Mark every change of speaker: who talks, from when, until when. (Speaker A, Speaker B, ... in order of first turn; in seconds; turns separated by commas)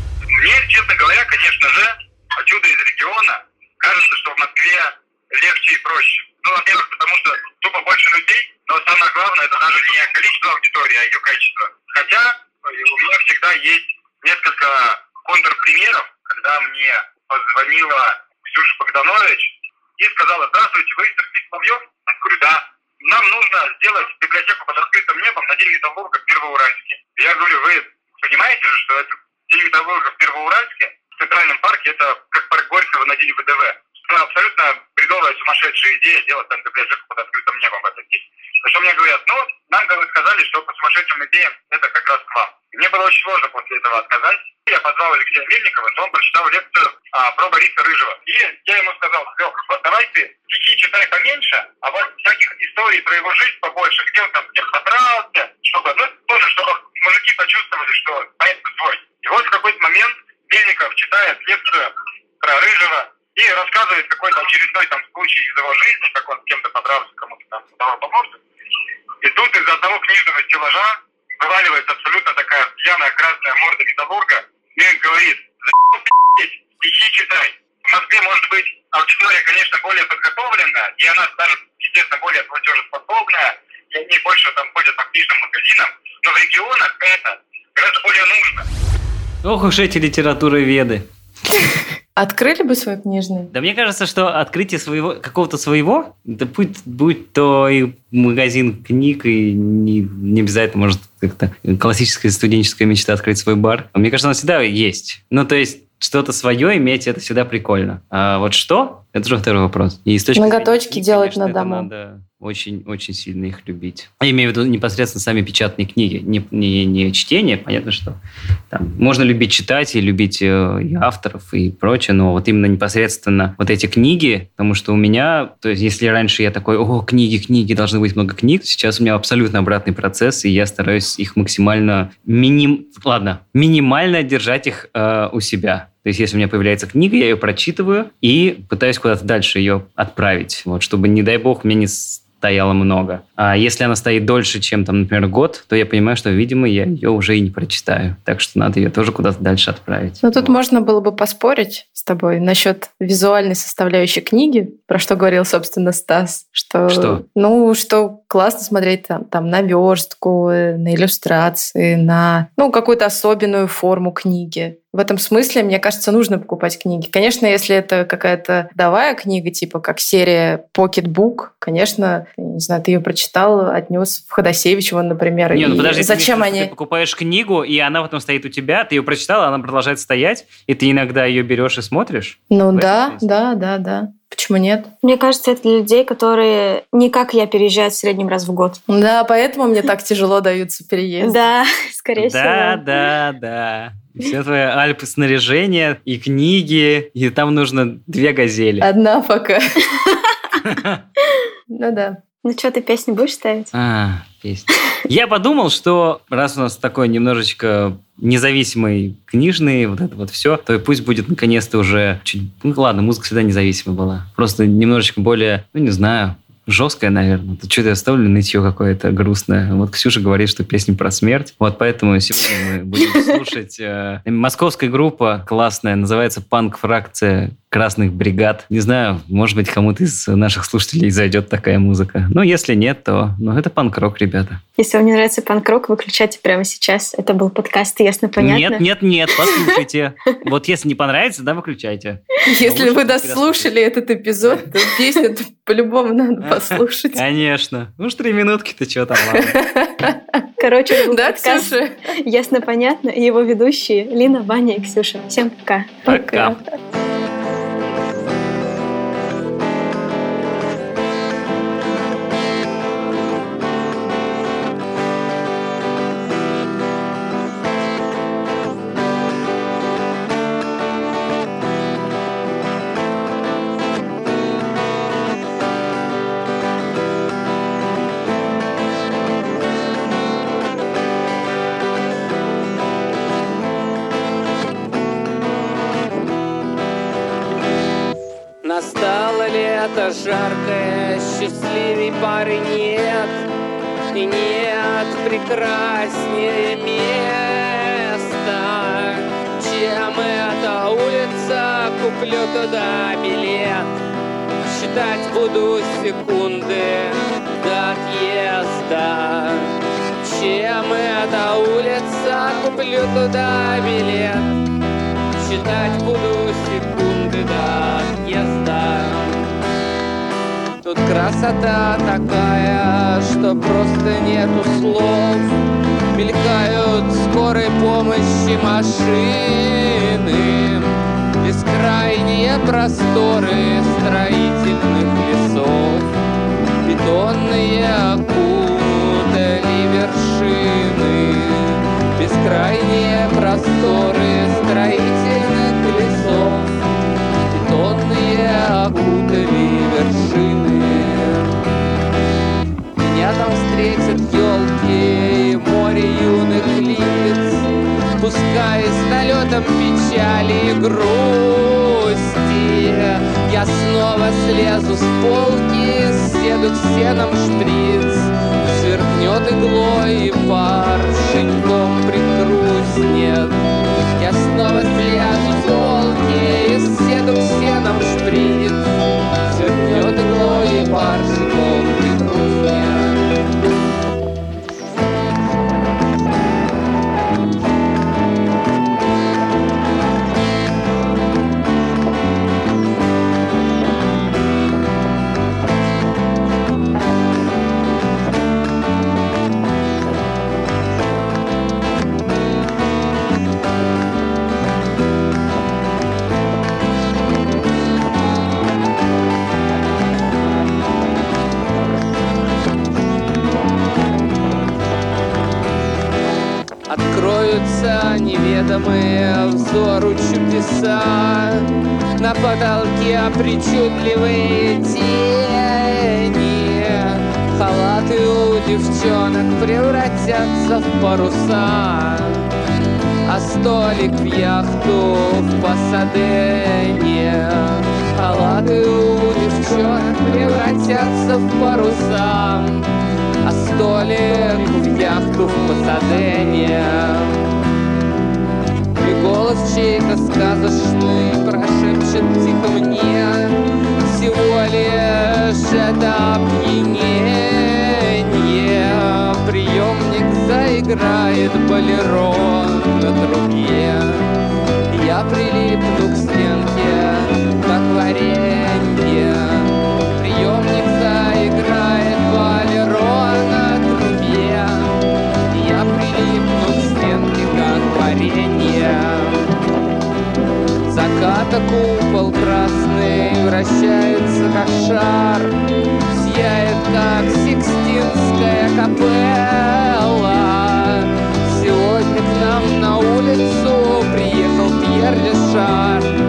Speaker A: 0.4-68.4, Speaker A: 69.2-88.7, Speaker B: 89.4-91.0, Speaker C: 92.2-93.5, Speaker B: 93.5-118.2, Speaker C: 110.3-111.9, Speaker B: 118.7-150.5, Speaker C: 150.2-176.7, Speaker B: 156.9-157.2, Speaker B: 175.5-183.4, Speaker C: 182.5-184.9, Speaker D: 185.0-188.8, Speaker C: 188.9-191.4, Speaker D: 191.2-192.9, Speaker B: 192.2-198.9, Speaker C: 198.8-200.2, Speaker B: 200.6-201.0, Speaker C: 201.7-202.2, Speaker D: 202.4-203.7, Speaker B: 203.7-234.6, Speaker D: 234.8-238.8, Speaker B: 238.4-243.7, Speaker C: 242.5-247.2, Speaker B: 246.5-249.6, Speaker C: 249.3-252.0, Speaker D: 250.6-256.1, Speaker B: 256.1-256.6, Speaker C: 256.1-256.6, Speaker E: 288.6-293.4, Speaker E: 294.1-303.9, Speaker E: 304.6-314.5, Speaker E: 315.4-319.4, Speaker E: 320.8-325.5, Speaker E: 326.1-330.9, Speaker E: 331.4-336.1, Speaker E: 336.8-346.7, Speaker E: 347.5-351.5, Speaker E: 353.0-357.7, Speaker E: 358.2-373.6, Speaker E: 374.2-378.9, Speaker E: 379.4-383.2, Speaker E: 416.9-421.7, Speaker E: 422.2-432.4, Speaker E: 433.3-442.9, Speaker E: 443.4-447.4, Speaker E: 448.9-464.2, Speaker E: 464.9-475.0, Speaker E: 475.5-479.5, Speaker E: 480.9-485.5, Speaker E: 486.1-496.1